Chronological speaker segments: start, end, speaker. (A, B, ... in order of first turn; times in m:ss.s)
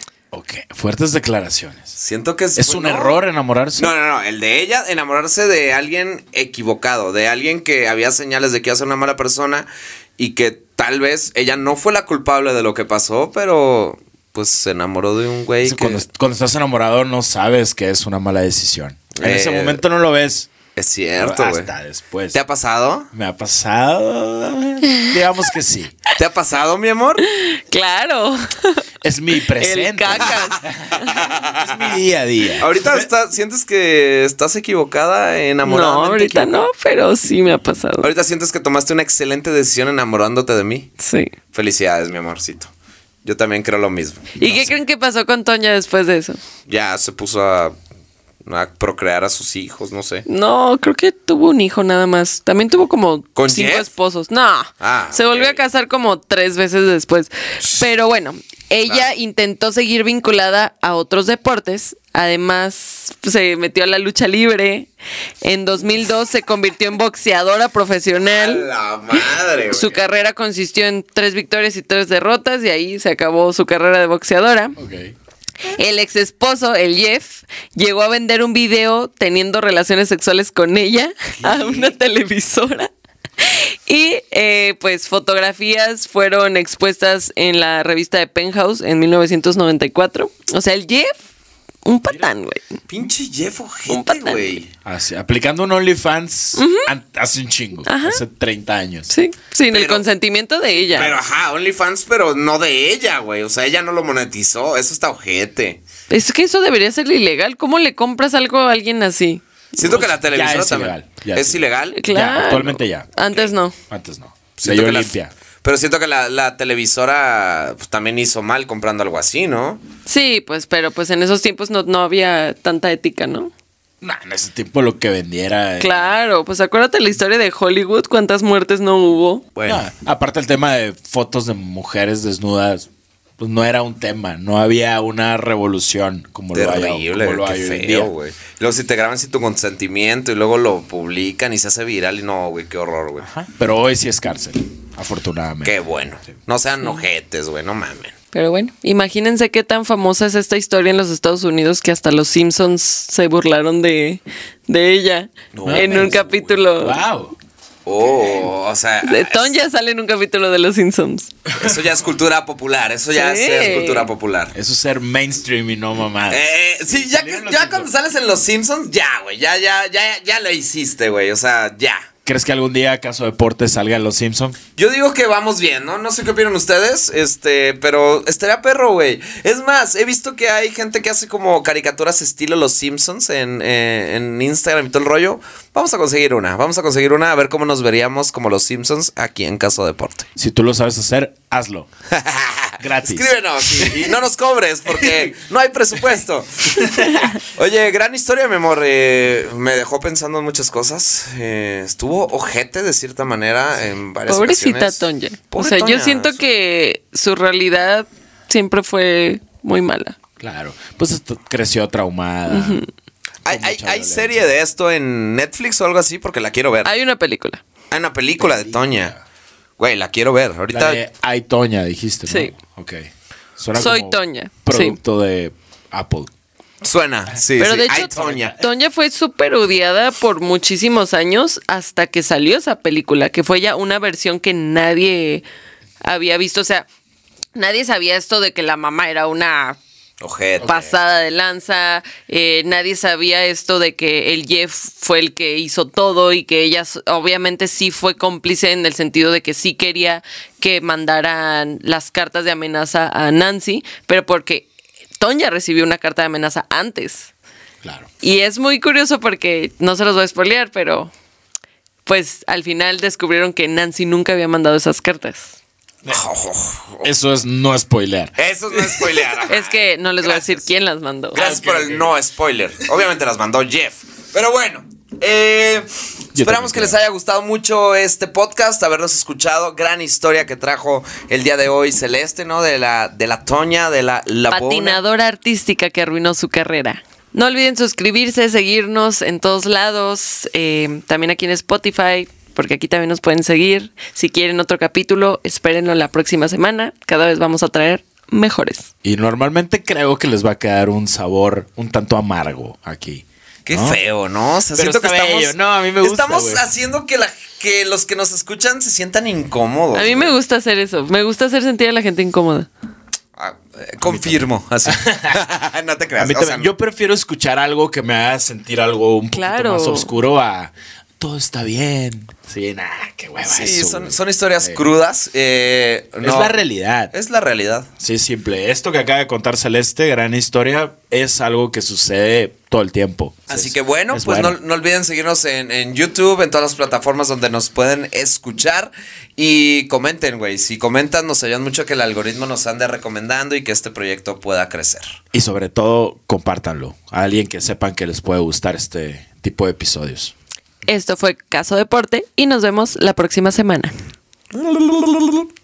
0:00.3-0:01.9 A
0:02.0-0:03.2 B
0:02.6-0:03.9 A
0:03.8-0:09.7 B
0:10.2-0:16.0 B
0:15.6-0:20.5 A
0:19.2-0:19.8 B
0:20.8-0:21.7 B
0:21.2-0:22.4 A
0:22.3-0:23.1 B
0:23.1-0:26.0 A
0:26.2-0:27.2 B
0:27.2-0:28.8 C
0:29.0-0:33.1 A
0:29.6-0:31.3 C
0:30.3-0:31.8 B
0:32.6-0:36.7 B
0:35.6-0:38.1 C
0:38.0-0:40.9 B
0:41.0-0:41.3 C
0:41.5-0:42.7 B
0:43.2-0:44.4 B
0:44.4-0:46.4 C
0:44.4-0:44.7 A
0:46.7-0:47.8 B
0:48.4-0:50.3 B
0:50.3-1:04.9 C
0:53.4-0:53.9 B
0:54.8-0:55.6 B
1:05.4-1:14.8 C
1:08.3-1:10.0 B
1:14.8-1:15.1 A
1:15.7-1:31.1 C
1:21.4-1:21.9 B
1:31.9-1:32.6 C
1:32.9-1:34.7 B
1:33.9-1:34.6 C
1:34.8-1:39.1 A
1:36.6-1:36.9 C
1:37.9-1:38.2 C
1:39.1-1:41.1 C
1:39.7-1:40.0 B
1:40.9-1:45.8 B
1:41.0-1:41.2 A
1:46.1-1:50.0 C
1:49.8-1:52.0 B
1:49.8-1:53.1 A
1:52.0-1:53.8 C
1:53.9-1:55.3 A
1:54.6-1:59.8 B
2:00.1-2:03.5 C
2:04.0-2:06.1 A
2:05.8-2:09.4 C
2:09.6-2:09.9 B
2:09.7-2:12.9 A
2:13.4-2:18.1 A
2:16.5-2:23.3 B
2:23.2-2:25.8 A
2:25.6-2:28.1 B
2:28.3-2:37.0 C
2:35.5-2:36.6 B
2:35.6-2:36.2 A
2:36.8-2:37.4 A
2:37.9-2:39.6 B
2:39.0-2:41.3 C
2:41.5-2:41.8 A
2:41.6-2:44.5 B
2:43.1-2:44.1 C
2:44.5-2:47.9 A
2:46.3-2:52.1 B
2:52.3-2:54.6 A
2:54.8-3:10.3 B
3:10.4-3:11.9 A
3:12.1-3:25.0 B
3:12.8-3:14.1 A
3:16.8-3:17.1 A
3:16.9-3:17.4 C
3:24.3-3:30.2 C
3:25.5-3:26.4 B
3:30.4-3:32.8 A
3:32.5-3:32.9 C
3:33.4-3:36.9 B
3:33.5-3:34.5 A
3:36.8-3:37.6 C
3:37.9-3:39.2 B
3:38.4-3:39.2 A
3:39.8-3:41.0 B
3:40.7-3:46.3 A
3:43.8-3:45.0 C
3:46.8-3:48.6 B
3:47.6-3:55.5 C
3:48.1-3:48.5 A
3:56.0-3:56.9 C
3:57.6-3:59.8 C
4:00.2-4:00.9 B
4:00.6-4:14.7 C
4:15.2-4:17.3 C
4:17.8-4:18.1 A
4:18.2-4:21.1 C
4:22.1-4:25.5 C
4:26.1-4:27.1 B
4:27.0-4:29.2 A
4:28.4-4:30.5 B
4:29.5-4:31.4 C
4:31.4-4:32.1 A
4:31.4-4:45.0 B
4:36.3-4:37.0 A
4:44.5-4:58.9 C
4:59.0-5:04.0 A
5:03.7-5:10.4 B
5:04.7-5:06.6 A
5:09.9-5:12.7 C
5:13.4-5:16.7 B
5:14.0-5:15.4 A
5:16.2-5:24.8 A
5:19.3-5:20.1 C
5:23.4-5:26.5 B
5:26.2-5:27.1 A
5:27.1-5:27.9 B
5:28.0-5:34.6 A
5:33.5-5:45.2 B
5:45.3-5:50.3 A
5:50.9-5:53.9 C
5:54.5-5:55.5 B